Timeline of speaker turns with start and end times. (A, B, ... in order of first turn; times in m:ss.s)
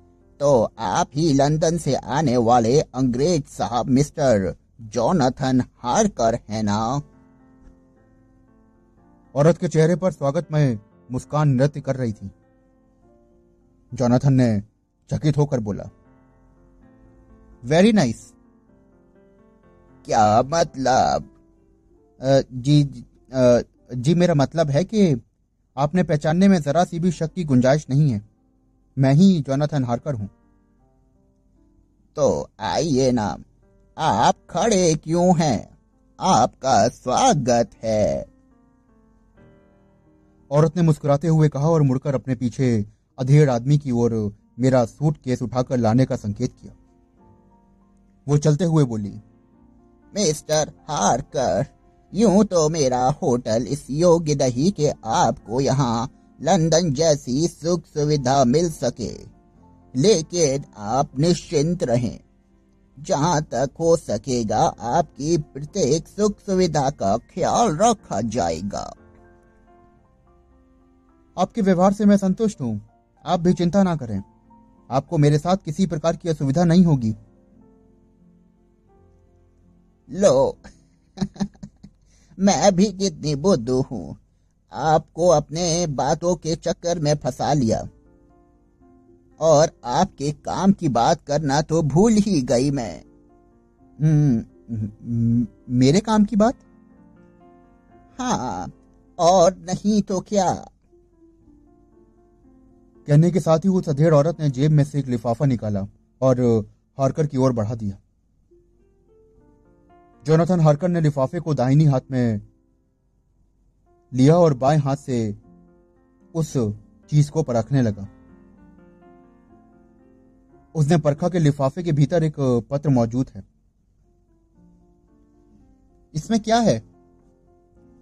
0:00.4-0:07.0 A
0:09.3-0:12.3 B
0:13.9-0:15.9 B
0:17.6-0:18.3 B
0:20.0-0:21.3 A
0:22.2-0:25.2 B
0:25.8-0:28.2 B
0:29.0-0:30.3 B
0:32.2-0:33.4 A
0:34.0-0:38.3 A
0:40.5-0:46.8 B
0:48.2-0:49.2 B
0:50.1-0:59.3 A
1:00.0-1:02.2 A
1:03.0-1:08.9 A
1:11.4-1:14.2 B
1:14.9-1:17.2 B
1:20.1-1:20.6 A
1:21.2-1:21.5 A
1:22.4-1:24.2 A
1:24.7-1:27.8 A
1:29.4-1:33.0 A
1:34.0-1:36.6 B
1:38.2-1:40.7 A
1:43.0-1:48.0 B
1:50.2-1:52.4 B
1:54.1-1:55.4 B
1:56.3-1:58.1 B
2:00.7-2:03.4 B
2:06.1-2:06.8 B